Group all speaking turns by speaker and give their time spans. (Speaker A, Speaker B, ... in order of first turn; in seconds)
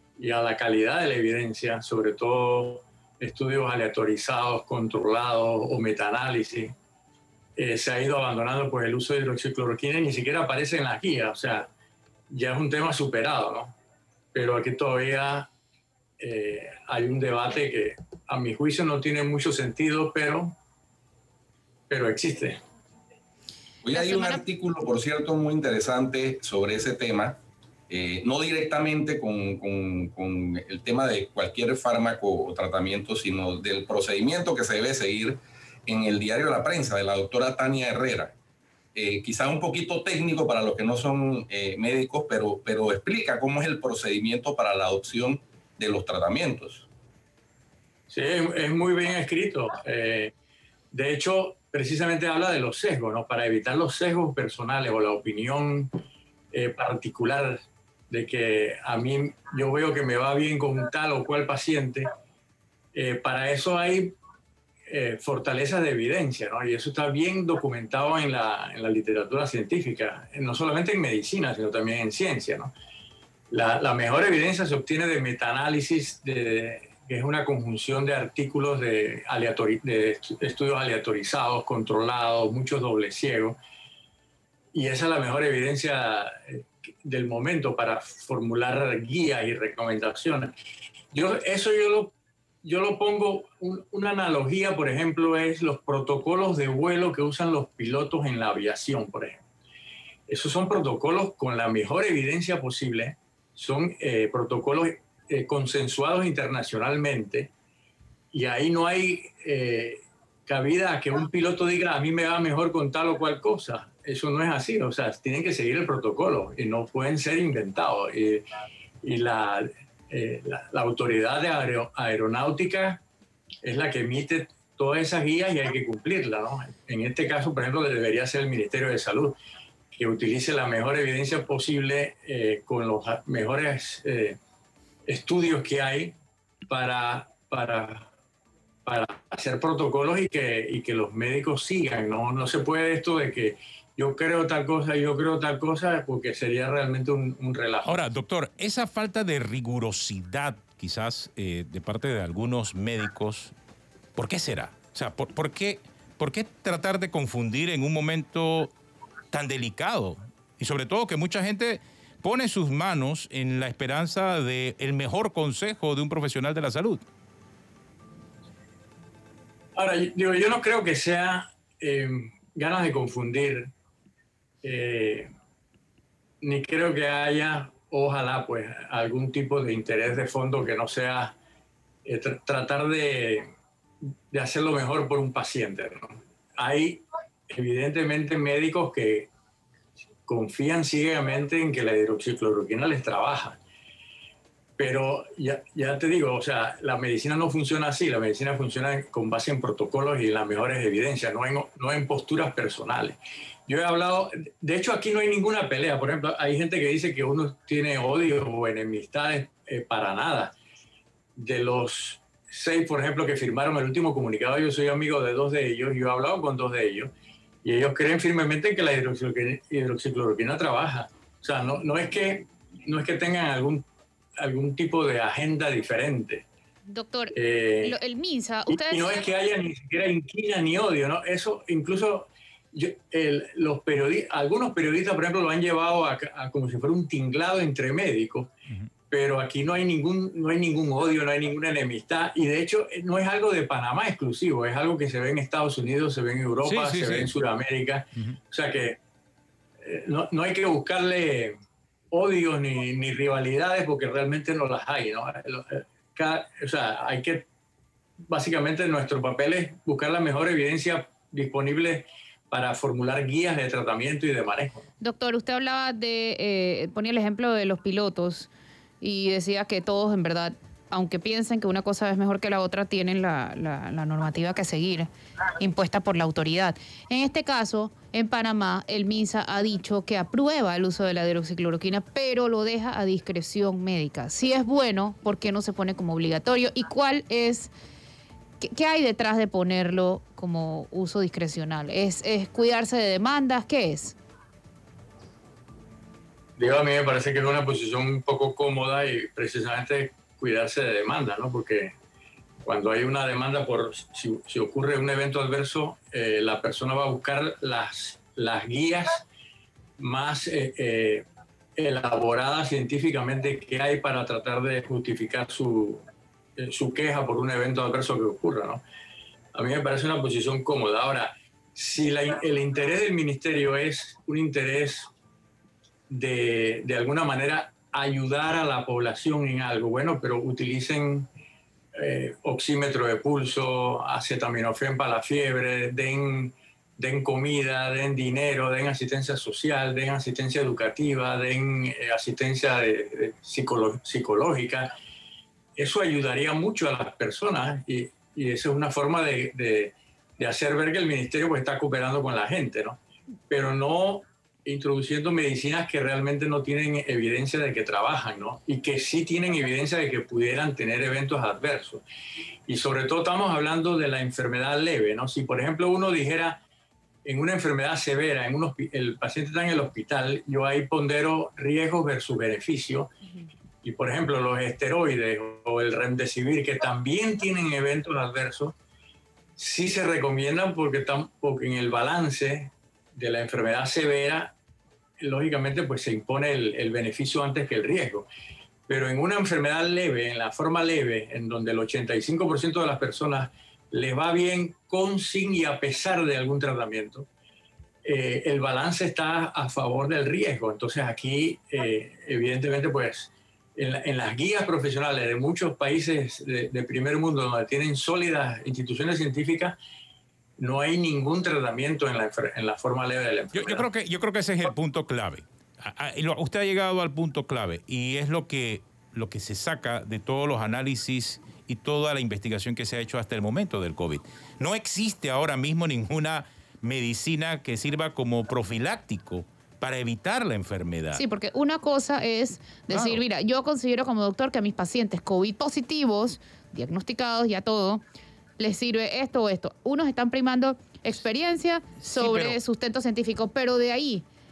Speaker A: 0.2-6.7, 7.5-11.7, 12.3-13.7, 14.3-15.5, 16.2-20.6, 21.9-22.6, 48.1-50.3, 50.9-55.9, 56.5-62.1, 62.9-64.2, 64.9-72.7, 73.5-83.6, 84.7-90.5, 91.1-99.4, 100.3-107.5, 108.3-118.5, 119.0-123.0, 123.6-129.4, 129.9-134.4, 135.1-136.2, 136.7-138.1, 138.8-147.9, 169.7-173.7, 174.6-175.3, 176.4-181.3, 182.0-183.5, 184.3-189.3, 190.3-193.6, 194.8-210.5, 211.3-217.1, 217.6-223.8, 224.4-226.4, 227.3-228.0, 228.7-238.5, 239.1-249.0, 249.8-251.6, 252.1-257.4, 258.3-264.8, 296.6-301.9, 302.6-309.2, 310.0-311.2, 311.8-316.0, 316.6-318.8, 319.5-325.1, 326.1-331.3, 331.9-344.9, 345.8-353.0, 353.5-362.0, 362.7-366.6, 367.2-373.1, 373.8-378.7, 379.6-384.5, 385.2-388.3, 388.9-397.3, 398.0-409.8, 410.6-413.8
Speaker B: 23.8-38.3, 38.9-46.9
Speaker C: 23.9-24.4, 226.9-229.2, 265.0-268.5, 269.0-287.7, 288.6-294.1, 431.1-438.0, 438.6-444.2
Speaker D: 147.8-153.5, 154.1-158.7, 159.3-167.1, 246.6-247.3, 413.5-431.2, 432.9-433.2, 442.0-442.6